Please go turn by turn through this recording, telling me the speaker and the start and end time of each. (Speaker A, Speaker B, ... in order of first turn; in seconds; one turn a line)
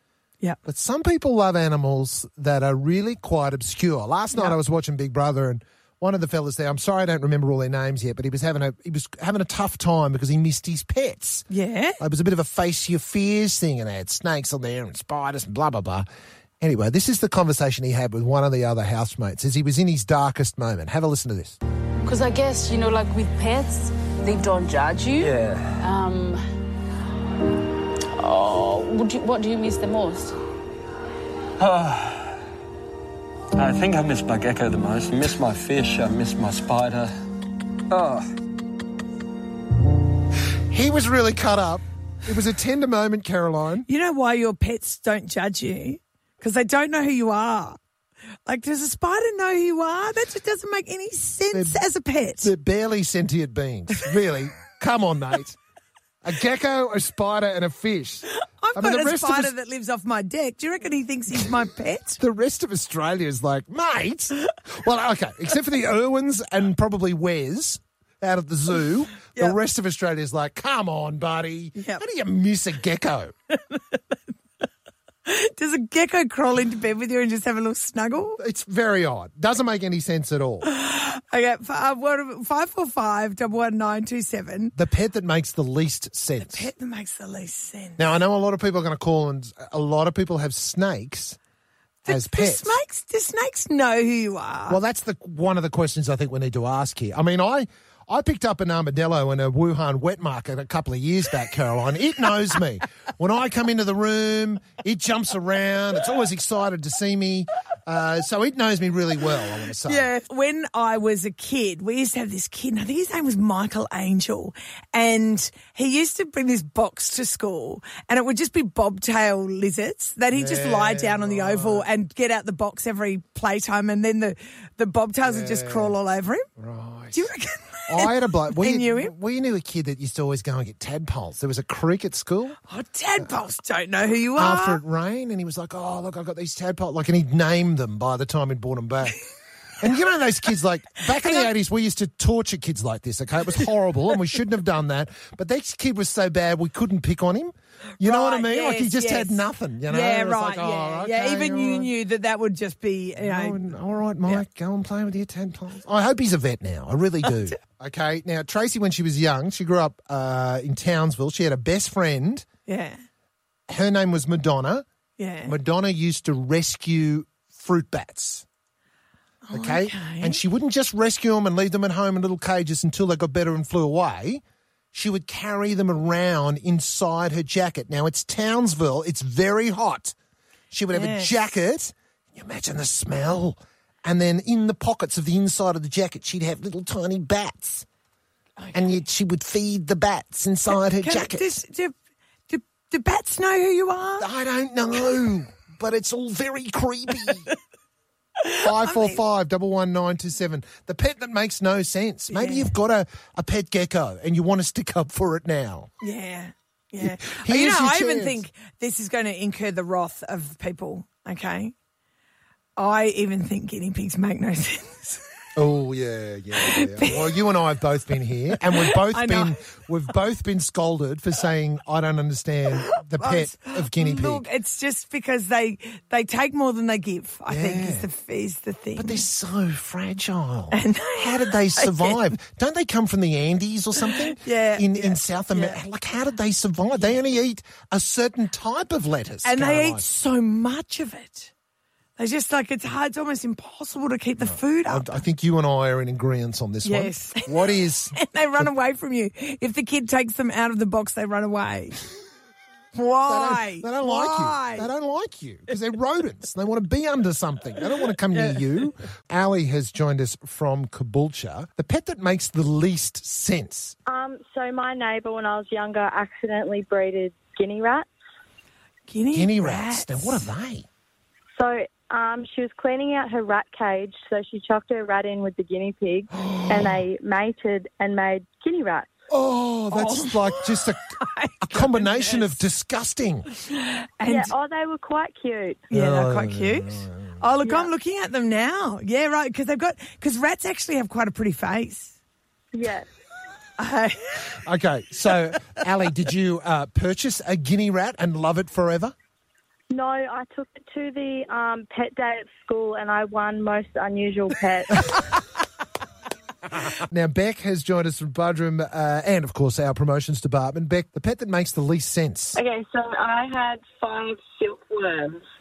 Speaker A: 0.6-11.5
Speaker B: 11.5-12.0
Speaker A: 12.0-16.1
Speaker A: 16.6-21.6
Speaker C: 22.0-26.4
Speaker D: 25.2-25.8
Speaker C: 28.2-30.4
Speaker D: 31.6-32.3
Speaker D: 33.5-37.1
Speaker D: 37.9-38.3
Speaker A: 40.7-43.9
Speaker B: 43.9-47.8
Speaker B: 48.5-52.5
Speaker A: 51.5-51.8
Speaker A: 52.4-55.6
Speaker A: 56.2-59.5
Speaker B: 58.2-62.2
Speaker A: 62.2-73.3
Speaker B: 71.8-72.0
Speaker B: 73.5-74.2
Speaker B: 75.2-78.4
Speaker A: 78.4-80.7
Speaker B: 80.6-84.7
Speaker A: 84.7-86.7
Speaker B: 86.5-88.0
Speaker A: 88.0-91.4
Speaker B: 92.0-94.8
Speaker A: 92.1-92.8
Speaker A: 94.7-110.1
Speaker B: 109.8-126.5
Speaker A: 120.3-121.9
Speaker A: 125.2-126.0
Speaker A: 126.6-127.3
Speaker B: 127.1-129.1
Speaker A: 127.9-132.6
Speaker B: 132.6-134.8
Speaker A: 134.3-139.2
Speaker A: 139.8-151.9
Speaker B: 148.0-153.6
Speaker A: 153.2-162.5
Speaker B: 162.7-163.0
Speaker A: 163.7-164.8
Speaker B: 165.2-165.5
Speaker A: 165.4-168.4
Speaker B: 169.5-170.4
Speaker A: 169.5-174.4
Speaker A: 174.9-180.1
Speaker A: 180.7-187.8
Speaker B: 180.9-181.3
Speaker B: 188.6-188.8
Speaker A: 188.7-191.6
Speaker B: 191.0-191.9
Speaker B: 192.5-194.3
Speaker A: 194.2-197.5
Speaker B: 198.4-199.2
Speaker A: 198.5-205.9
Speaker B: 202.3-202.7
Speaker B: 206.0-211.7
Speaker A: 207.0-208.4
Speaker B: 212.8-215.2
Speaker A: 215.6-224.4
Speaker B: 216.6-217.3
Speaker B: 218.8-219.6
Speaker B: 222.8-229.2
Speaker A: 227.5-228.1
Speaker A: 229.0-240.0
Speaker B: 230.7-232.3
Speaker B: 234.1-235.8
Speaker B: 239.4-241.5
Speaker B: 242.2-245.1
Speaker A: 244.4-248.7
Speaker B: 246.8-247.6
Speaker B: 248.1-252.0
Speaker B: 252.9-254.9
Speaker A: 253.2-263.9
Speaker E: 264.1-268.1
Speaker B: 269.1-270.4
Speaker A: 269.3-270.9
Speaker E: 271.6-279.1
Speaker A: 276.4-277.0
Speaker A: 279.3-281.1
Speaker B: 279.9-282.6
Speaker A: 281.7-283.5
Speaker B: 283.6-284.5
Speaker E: 284.2-285.9
Speaker A: 285.9-287.4
Speaker B: 285.9-292.2
Speaker E: 287.6-287.9
Speaker E: 292.7-293.1
Speaker B: 293.8-294.4
Speaker A: 294.6-299.1
Speaker E: 299.9-305.1
Speaker A: 306.9-312.6
Speaker F: 312.5-315.4